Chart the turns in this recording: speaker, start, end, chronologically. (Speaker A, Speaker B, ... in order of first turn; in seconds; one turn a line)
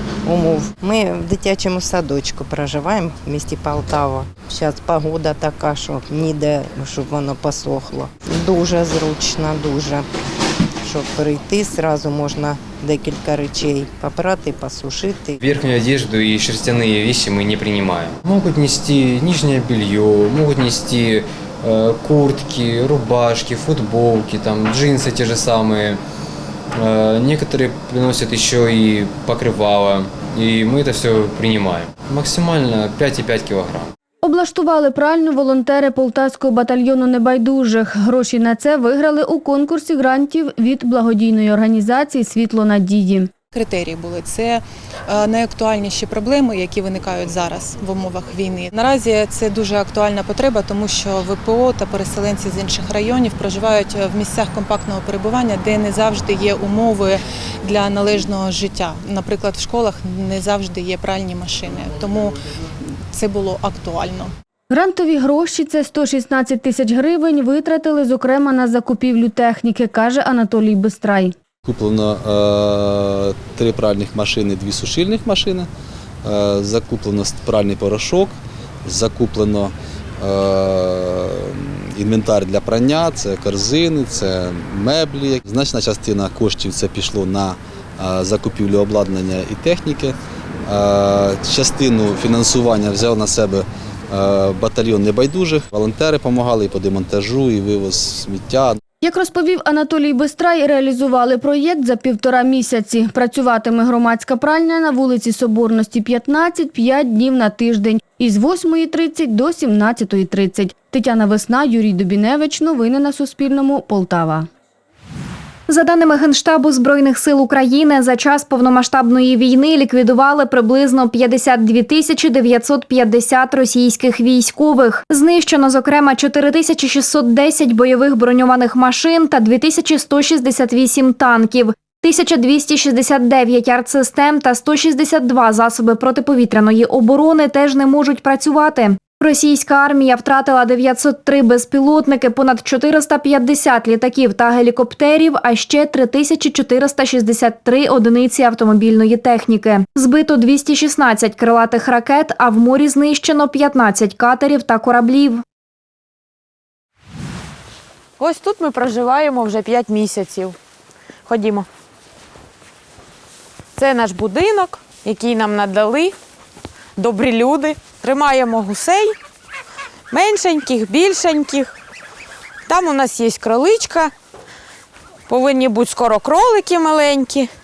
Speaker A: 0.2-10.1
Speaker A: 10.8-15.4
Speaker B: 15.4-26.0
Speaker B: 26.8-33.9
Speaker C: 34.2-43.3
Speaker D: 43.5-62.4
Speaker D: 63.1-64.3
Speaker C: 64.7-71.3
Speaker E: 71.6-75.7
Speaker E: 76.2-98.8
Speaker C: 99.0-114.5
Speaker F: 115.7-155.4
Speaker G: 158.2-160.5
Speaker G: 161.3-161.6
Speaker G: 163.8-166.1
Speaker G: 167.0-169.1
Speaker G: 170.1-171.7
Speaker G: 172.7-174.1
Speaker G: 175.3-177.5